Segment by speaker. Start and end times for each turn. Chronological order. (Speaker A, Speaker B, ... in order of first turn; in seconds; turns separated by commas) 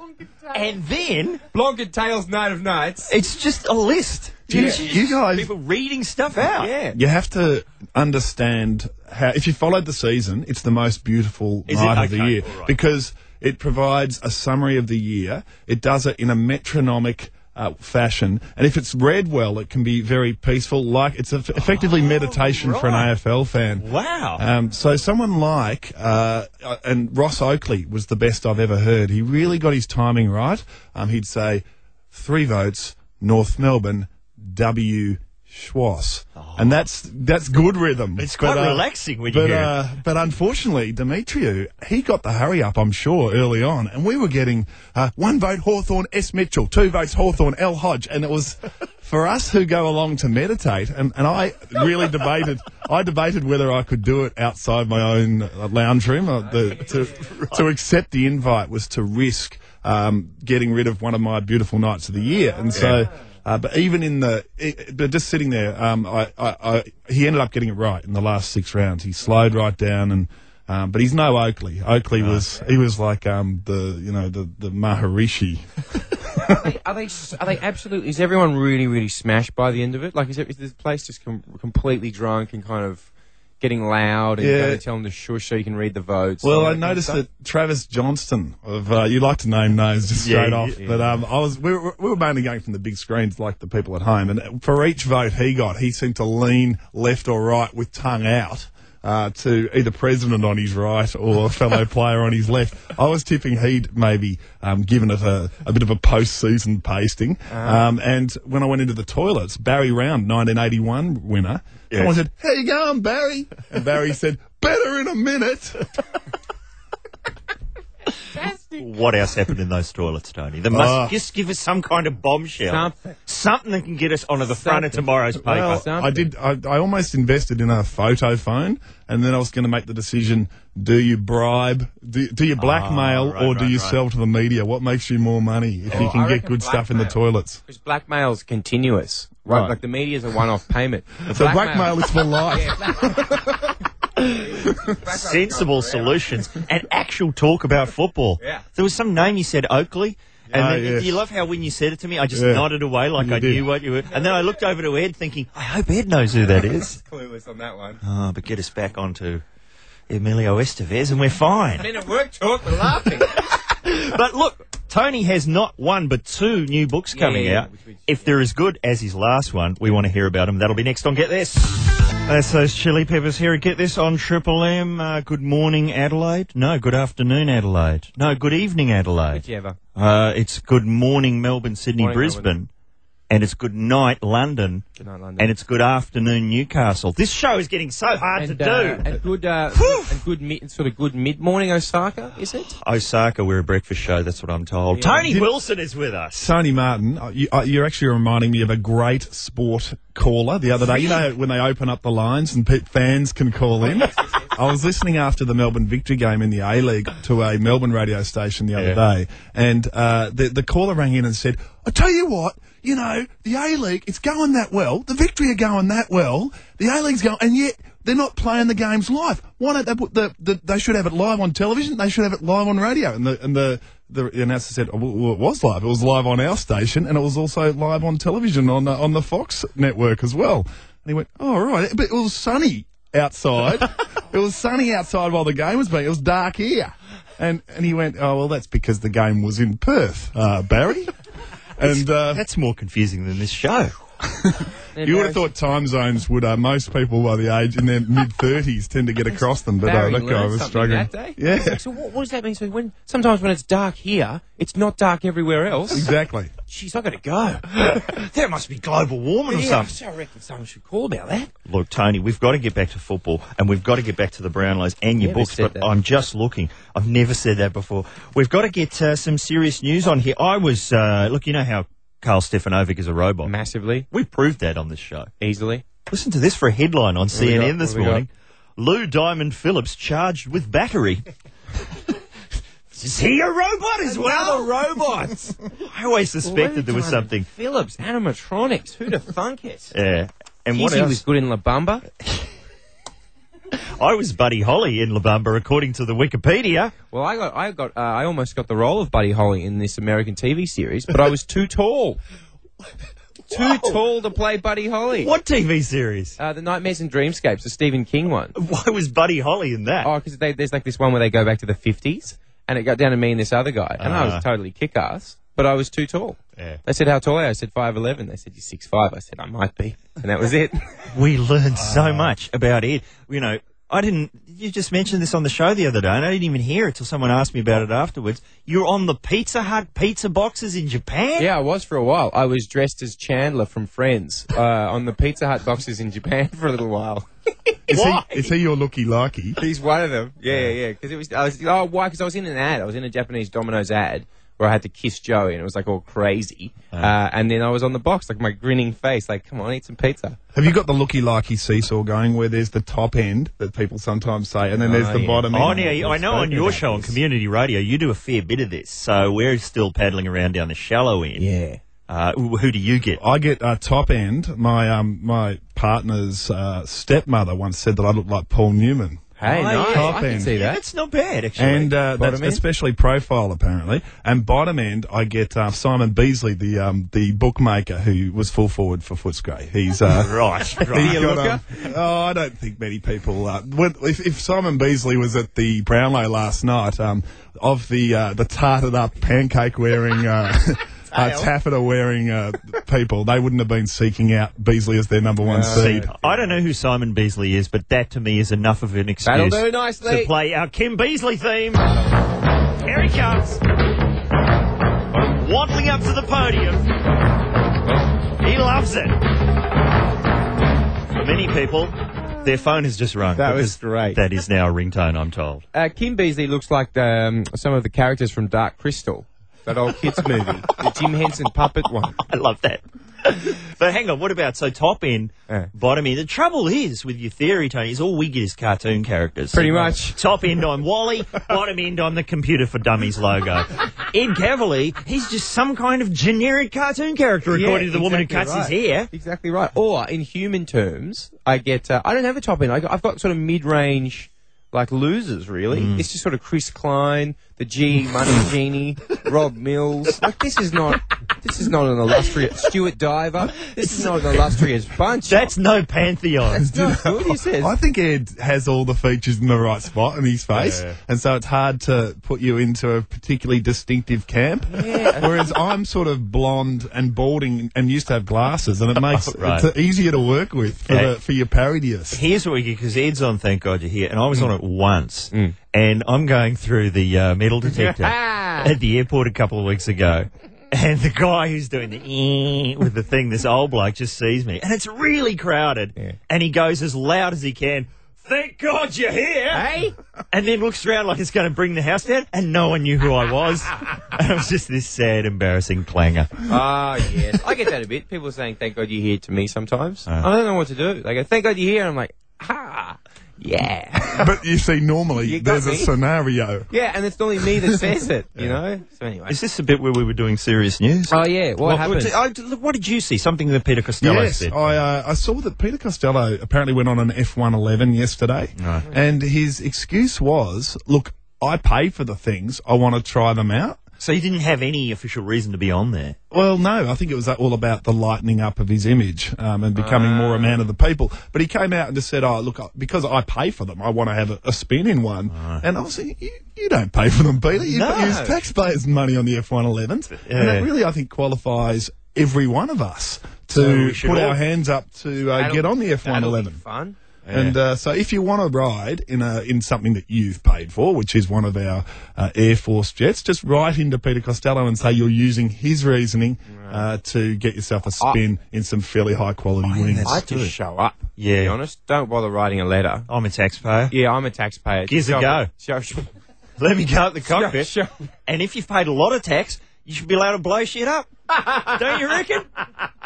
Speaker A: 0.5-1.4, Speaker B: 1.5-3.1, Speaker A: 3.1-6.7, Speaker C: 4.5-5.5, Speaker B: 4.5-4.8, Speaker B: 6.6-7.0, Speaker C: 6.9-76.5, Speaker A: 11.7-12.7, Speaker B: 22.2-22.5, Speaker A: 22.6-23.1, Speaker A: 23.8-24.4, Speaker A: 36.4-36.8, Speaker A: 38.2-39.7, Speaker A: 62.8-63.0, Speaker A: 72.2-72.5, Speaker B: 76.4-83.1, Speaker B: 83.6-87.2, Speaker C: 84.4-84.8, Speaker C: 86.4-115.9, Speaker A: 90.2-90.8, Speaker B: 107.5-107.8, Speaker B: 118.3-118.8, Speaker A: 118.8-125.9, Speaker C: 120.7-121.2, Speaker B: 122.7-123.2, Speaker B: 124.5-126.3, Speaker C: 125.4-137.6, Speaker A: 132.6-134.0, Speaker B: 135.9-143.4, Speaker C: 139.5-139.8, Speaker C: 141.3-143.6, Speaker B: 144.4-146.2, Speaker A: 145.1-157.0, Speaker B: 148.4-148.7, Speaker C: 150.5-151.2, Speaker C: 152.3-153.6, Speaker B: 156.7-158.0, Speaker A: 158.0-159.4, Speaker A: 160.1-161.9, Speaker B: 161.8-163.4, Speaker A: 163.5-179.4, Speaker B: 167.1-168.3, Speaker B: 179.3-179.8, Speaker A: 180.0-182.7, Speaker B: 182.0-182.5, Speaker A: 183.3-184.8, Speaker B: 185.0-185.5, Speaker A: 185.4-189.1, Speaker B: 188.4-192.7, Speaker A: 189.7-190.2, Speaker A: 192.8-196.5, Speaker B: 194.9-195.3, Speaker C: 196.4-241.1, Speaker B: 203.8-204.5, Speaker C: 241.8-242.4, Speaker A: 241.8-243.9, Speaker C: 244.2-251.8, Speaker B: 245.0-245.4, Speaker B: 249.3-256.1, Speaker C: 255.9-256.5, Speaker B: 256.7-258.0, Speaker A: 257.8-259.9, Speaker B: 259.5-261.5, Speaker A: 261.7-273.5, Speaker B: 265.2-265.9, Speaker B: 273.4-274.1, Speaker A: 274.1-275.3, Speaker B: 275.4-275.8, Speaker A: 276.1-281.3, Speaker B: 277.3-278.2, Speaker A: 282.9-287.5, Speaker B: 284.1-285.5, Speaker B: 286.4-289.9, Speaker A: 289.9-291.2, Speaker B: 290.7-292.0, Speaker A: 293.7-296.9, Speaker B: 297.1-302.2, Speaker B: 303.5-305.3, Speaker A: 303.5-304.0, Speaker A: 305.2-306.4, Speaker B: 306.4-308.6, Speaker A: 308.6-310.1, Speaker B: 310.0-320.9, Speaker A: 314.0-314.4, Speaker A: 321.1-331.5, Speaker B: 331.4-338.2, Speaker C: 337.9-339.6, Speaker B: 339.6-350.4, Speaker C: 350.5-357.2, Speaker B: 354.8-355.5, Speaker A: 355.5-361.4, Speaker B: 361.4-361.8, Speaker A: 362.1-363.2, Speaker C: 363.2-370.5, Speaker B: 369.4-370.8, Speaker A: 369.4-371.9, Speaker C: 371.6-396.1, Speaker B: 372.1-372.6, Speaker A: 380.1-381.4, Speaker B: 380.8-381.6, Speaker B: 391.1-391.5, Speaker B: 395.4-396.5, Speaker A: 395.6-401.9, Speaker B: 399.2-400.3, Speaker A: 402.8-403.6, Speaker A: 405.2-406.9, Speaker A: 408.4-409.2, Speaker A: 411.1-415.6, Speaker B: 413.4-414.2, Speaker B: 415.7-422.2, Speaker A: 422.3-439.1, Speaker B: 429.5-430.2, Speaker B: 437.5-455.5, Speaker A: 445.7-446.1, Speaker A: 453.8-454.5, Speaker A: 455.3-456.7, Speaker B: 456.5-457.7, Speaker C: 456.7-472.2, Speaker A: 460.5-461.0, Speaker B: 464.7-465.5, Speaker A: 469.1-469.7, Speaker A: 470.9-471.1, Speaker A: 472.1-489.7, Speaker B: 477.7-478.7, Speaker B: 489.5-489.9, Speaker A: 490.3-496.4, Speaker B: 496.5-504.4, Speaker C: 504.1-506.7, Speaker B: 505.2-505.9, Speaker B: 506.7-509.4, Speaker A: 509.3-514.8, Speaker B: 511.1-512.1, Speaker C: 514.0-523.8, Speaker A: 518.6-518.9, Speaker A: 524.0-526.2, Speaker C: 526.3-546.6, Speaker B: 529.8-530.6, Speaker A: 535.3-535.6, Speaker A: 537.8-538.2, Speaker B: 537.9-538.3, Speaker A: 540.2-540.7, Speaker A: 543.6-544.4, Speaker B: 545.3-547.0, Speaker A: 547.3-547.6, Speaker C: 547.3-560.1, Speaker B: 556.5-556.9, Speaker A: 559.6-560.5, Speaker B: 560.0-563.1, Speaker A: 561.2-561.6, Speaker A: 563.1-563.9, Speaker B: 563.9-566.1, Speaker A: 564.9-565.5, Speaker A: 566.6-567.7, Speaker B: 567.3-567.9, Speaker A: 568.3-572.5, Speaker B: 571.4-571.7